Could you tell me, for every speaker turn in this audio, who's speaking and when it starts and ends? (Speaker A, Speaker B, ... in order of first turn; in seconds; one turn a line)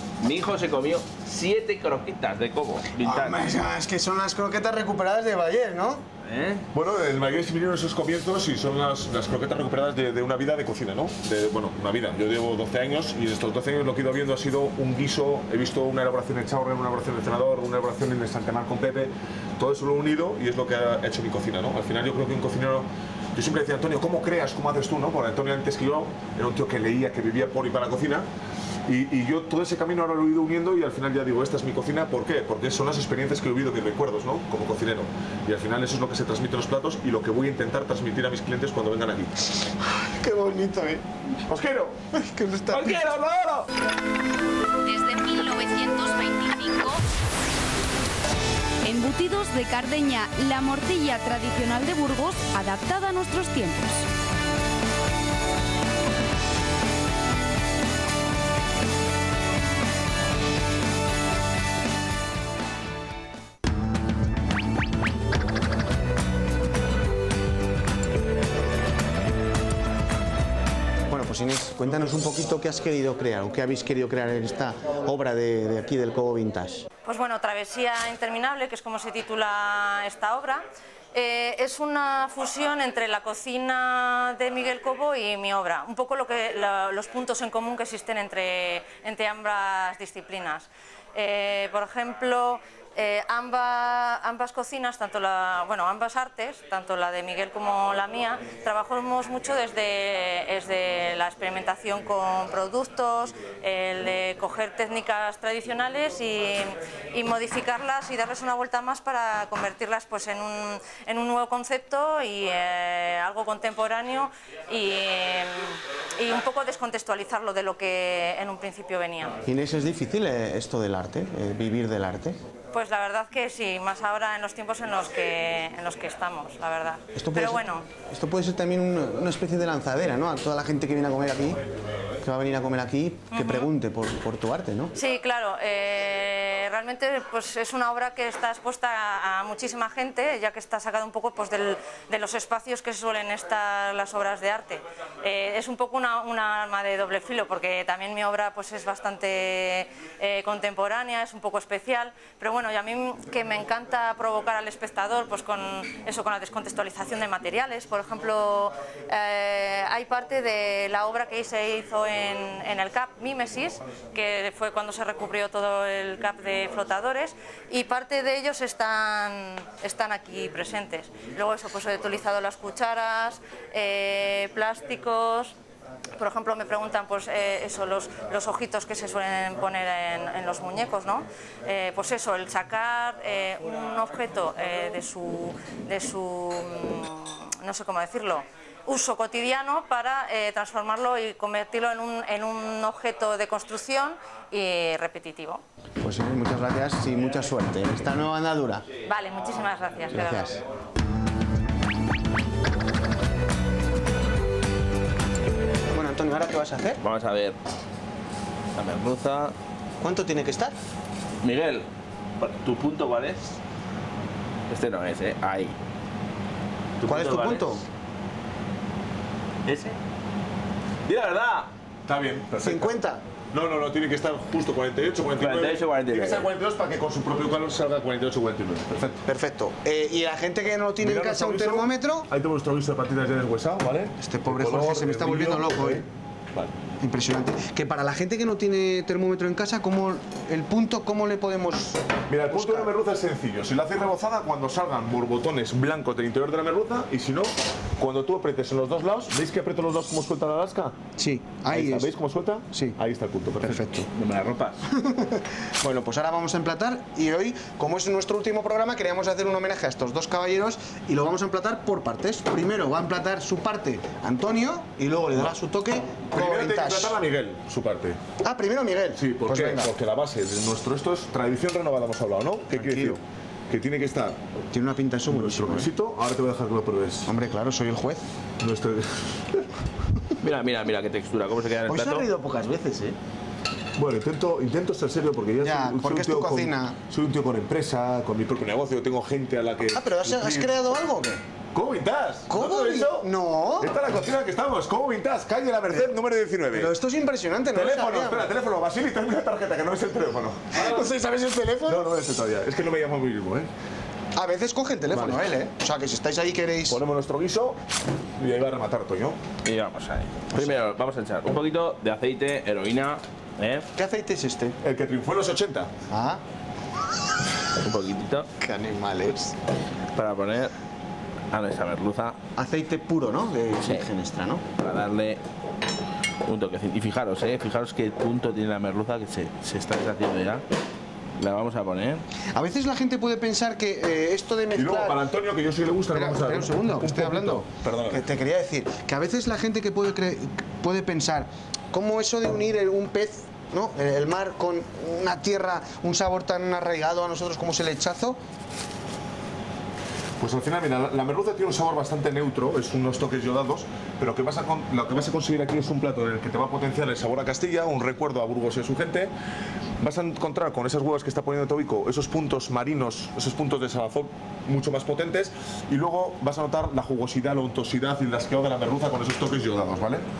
Speaker A: 0.2-3.4
Speaker B: 3.0-6.0
Speaker A: 6.2-6.7
Speaker C: 6.7-28.2
Speaker C: 28.9-39.5
Speaker B: 39.8-41.0
Speaker C: 41.5-42.0
Speaker B: 42.1-43.0
Speaker A: 42.7-43.7
Speaker D: 44.8-47.0
Speaker D: 48.8-54.0
Speaker B: 71.1-76.8
Speaker E: 77.0-119.4
Speaker B: 119.5-122.4
Speaker E: 122.7-127.9
Speaker B: 127.2-131.6
Speaker B: 132.2-134.9
Speaker E: 133.3-133.7
Speaker E: 134.9-175.5
Speaker E: 176.2-195.6
Speaker B: 196.0-198.9
Speaker E: 199.0-200.6
Speaker B: 200.1-200.6
Speaker B: 205.9-207.0
Speaker A: 207.0-207.6
Speaker A: 208.8-209.5
Speaker B: 210.0-210.7
Speaker A: 211.4-211.9
Speaker A: 212.4-213.6
Speaker A: 214.7-215.8
Speaker A: 217.0-217.7
Speaker B: 217.1-217.8
Speaker A: 219.7-220.0
Speaker A: 221.1-221.7
Speaker C: 222.1-223.0
Speaker B: 222.6-223.2
Speaker C: 223.5-229.2
Speaker A: 225.4-226.5
Speaker B: 229.2-232.3
Speaker C: 231.0-236.7
Speaker B: 234.2-236.1
Speaker B: 237.0-242.9
Speaker C: 242.3-251.0
Speaker B: 251.2-252.1
Speaker C: 251.7-253.9
Speaker B: 253.6-254.1
Speaker A: 253.9-254.9
Speaker B: 254.9-267.1
Speaker C: 266.3-268.2
Speaker B: 268.4-269.9
Speaker C: 269.1-274.4
Speaker B: 272.8-273.2
Speaker B: 274.7-275.9
Speaker C: 275.3-277.3
Speaker B: 277.2-278.2
Speaker C: 278.6-279.7
Speaker A: 280.4-282.3
Speaker B: 281.9-283.1
Speaker C: 283.9-290.7
Speaker B: 285.6-286.9
Speaker B: 289.9-291.4
Speaker C: 291.7-296.9
Speaker B: 292.5-293.9
Speaker B: 296.7-298.5
Speaker C: 297.7-301.1
Speaker B: 300.7-302.0
Speaker C: 301.8-303.7
Speaker B: 304.3-307.0
Speaker C: 305.1-305.5
Speaker C: 306.9-307.8
Speaker C: 308.4-309.4
Speaker A: 309.6-313.9
Speaker B: 313.9-314.8
Speaker C: 314.8-315.9
Speaker B: 316.1-316.4
Speaker A: 317.8-318.5
Speaker B: 318.6-319.5
Speaker A: 320.1-320.7
Speaker A: 321.5-322.4
Speaker B: 322.6-324.6
Speaker A: 324.8-325.4
Speaker A: 326.4-330.6
Speaker A: 331.4-332.2
Speaker B: 332.5-335.2
Speaker C: 334.7-338.3
Speaker B: 336.1-348.4
Speaker C: 350.4-359.3
Speaker C: 360.0-370.2